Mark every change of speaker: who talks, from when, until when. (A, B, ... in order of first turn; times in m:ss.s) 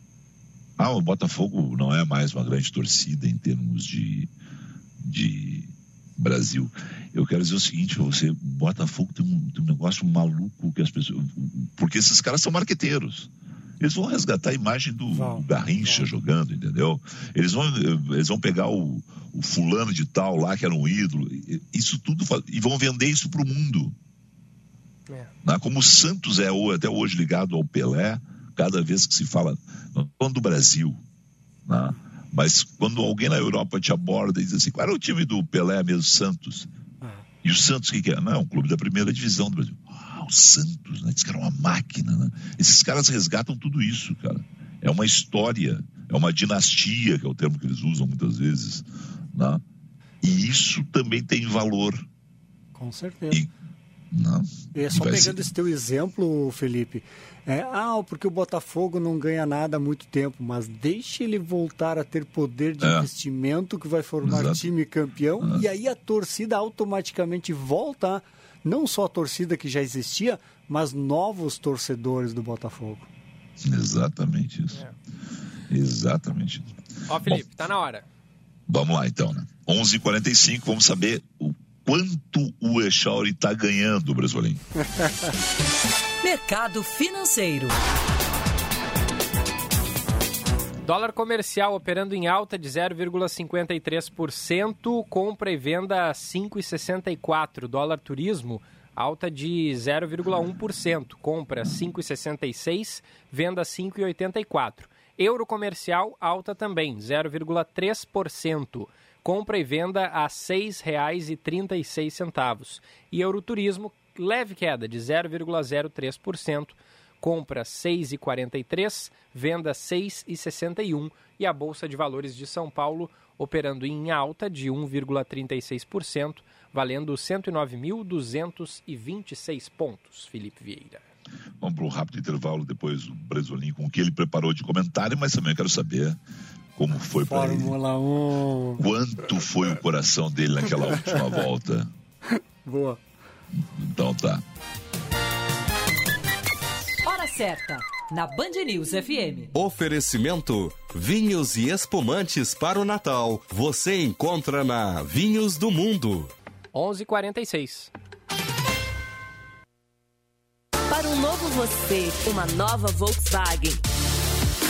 0:00.8-0:04.3 A
0:05.0-0:23.9 A
0:15.1-0:16.1 B
0:25.4-0:31.0 A
0:31.6-0:36.7 A
0:37.4-0:49.6 A
0:50.2-0:52.1 A
0:52.7-0:53.5 B
0:54.1-0:55.4 A
0:54.7-1:13.1 B
1:02.8-1:03.1 A
1:04.2-1:04.7 A
1:13.6-1:14.8 A
1:15.7-1:17.4 A
1:17.1-1:18.1 C
1:18.7-1:24.6 A
1:26.2-1:27.8 D
1:30.8-2:11.0 C
2:11.6-2:16.2 A
2:16.8-2:17.8 A
2:16.9-2:18.8 B
2:18.8-2:21.9 A
2:20.9-2:21.4 B
2:22.6-2:23.0 B
2:23.6-2:24.4 A
2:27.0-2:29.5 D
2:29.5-2:36.3 E
2:36.7-2:37.9 C
2:40.9-2:43.8 F